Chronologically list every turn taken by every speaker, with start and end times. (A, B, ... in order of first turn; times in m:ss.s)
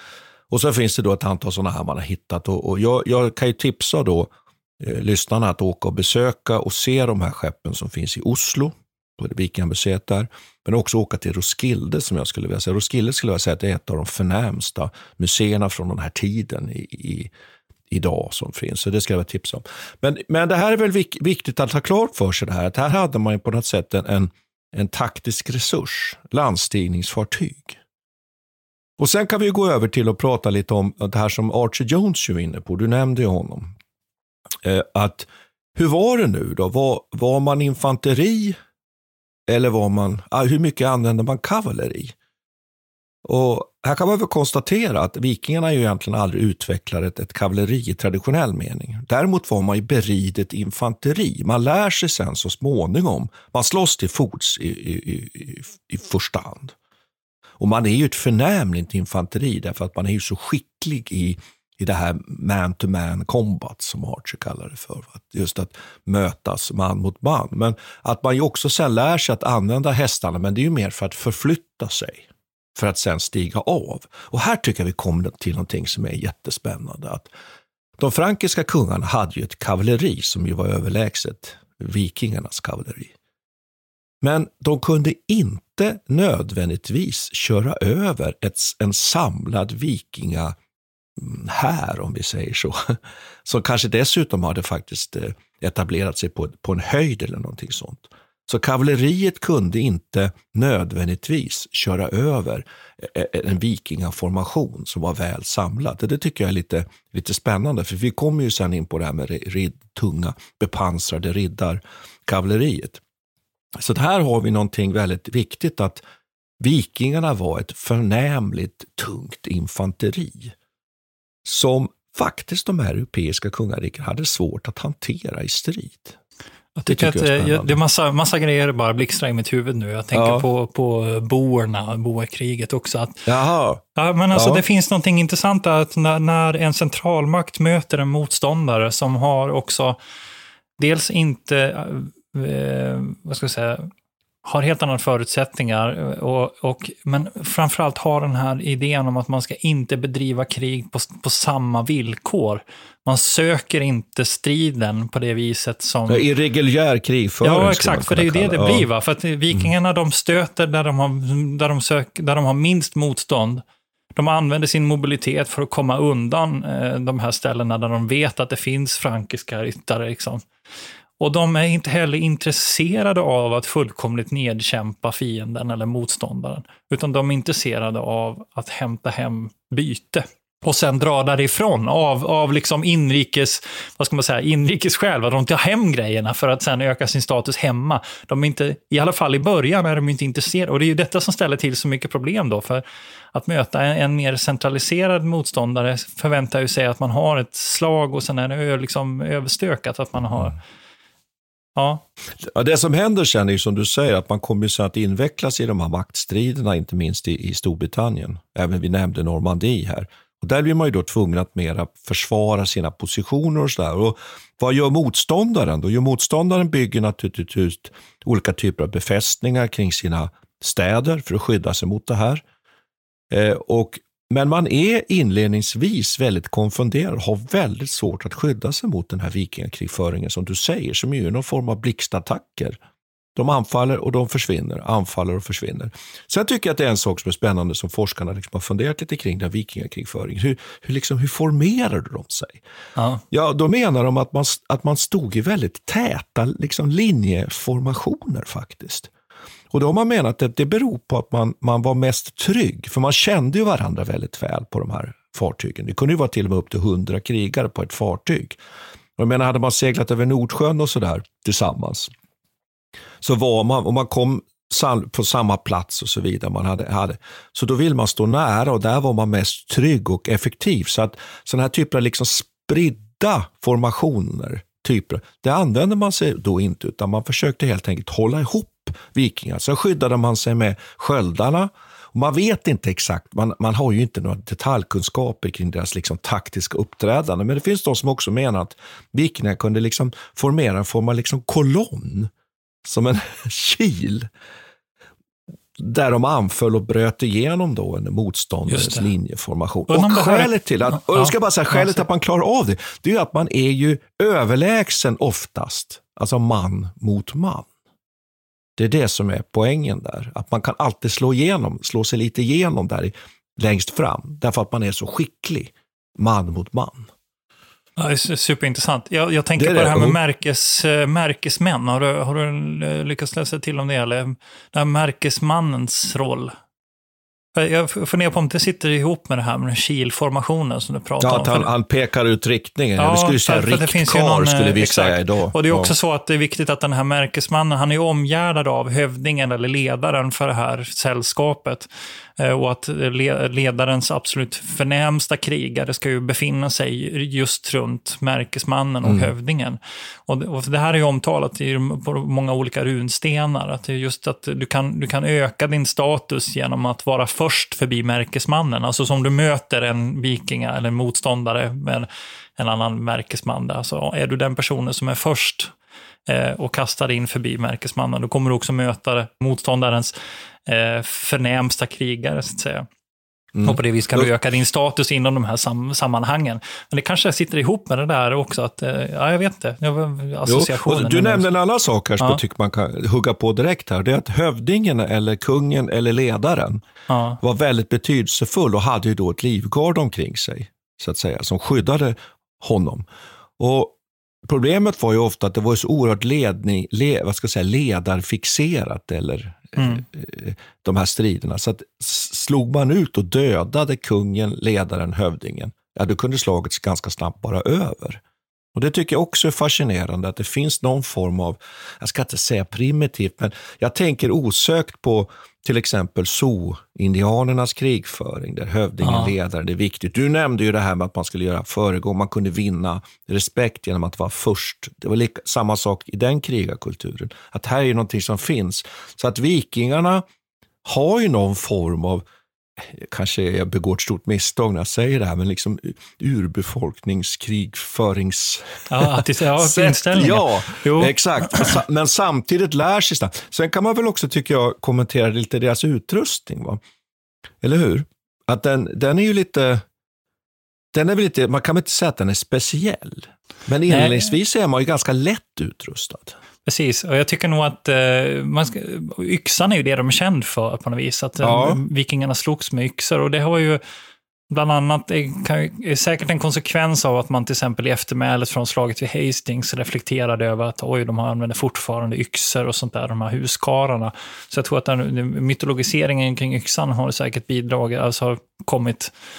0:00.5-0:17.3 A
0:17.9-0:27.8 A
0:29.0-0:33.7 A
0:34.6-0:38.6 A
0:39.5-0:42.1 A
0:43.2-0:56.7 A
0:57.6-1:17.3 A
1:18.0-1:23.1 A
1:24.2-1:30.6 A
1:31.2-1:53.0 A
1:53.7-1:56.0 A
1:56.6-2:00.5 A
2:01.4-2:06.2 A
2:06.8-2:13.2 B
2:06.8-2:07.8 A
2:10.1-2:10.5 A
2:13.2-2:14.6 A
2:14.0-2:20.0 B
2:20.8-2:23.9 B
2:24.4-2:36.2 B
2:36.1-2:38.9 A
2:37.4-2:43.6 B
2:44.2-2:50.4 B
2:51.2-3:20.6 B
3:21.8-3:22.0 B
3:22.4-3:42.4 A
3:43.3-3:52.8 A
3:53.4-4:02.6 A
4:03.0-4:03.2 B
4:03.3-4:09.1 A
4:09.7-4:18.6 A
4:19.2-4:22.1 A
4:23.2-4:52.3 A
4:52.8-4:54.3 A
4:55.8-5:07.7 A
4:58.7-4:59.1 B
4:59.9-5:02.0 B
5:08.8-5:17.1 A
5:18.0-5:26.5 B
5:19.6-5:20.2 A
5:27.6-5:31.7 B
5:31.2-5:35.9 A
5:33.0-5:41.9 B
5:42.4-6:02.1 B
5:49.0-5:49.3 A
6:02.6-6:05.7 B
6:06.3-6:10.1 B
6:10.7-6:12.9 B
6:13.5-6:14.3 A
6:13.6-6:21.5 B
6:20.4-6:26.8 A
6:27.1-6:27.4 B
6:27.4-6:33.1 A
6:33.6-6:48.2 A
6:39.8-6:40.0 B
6:48.7-7:10.2 A
6:59.0-6:59.3 B
7:10.8-7:12.2 A
7:12.8-7:26.8 A
7:18.9-7:21.8 B
7:27.6-7:29.8 A
7:30.9-7:36.4 A
7:33.9-7:34.3 B
7:36.6-7:43.8 B
7:41.4-7:41.8 A
7:44.5-7:59.1 B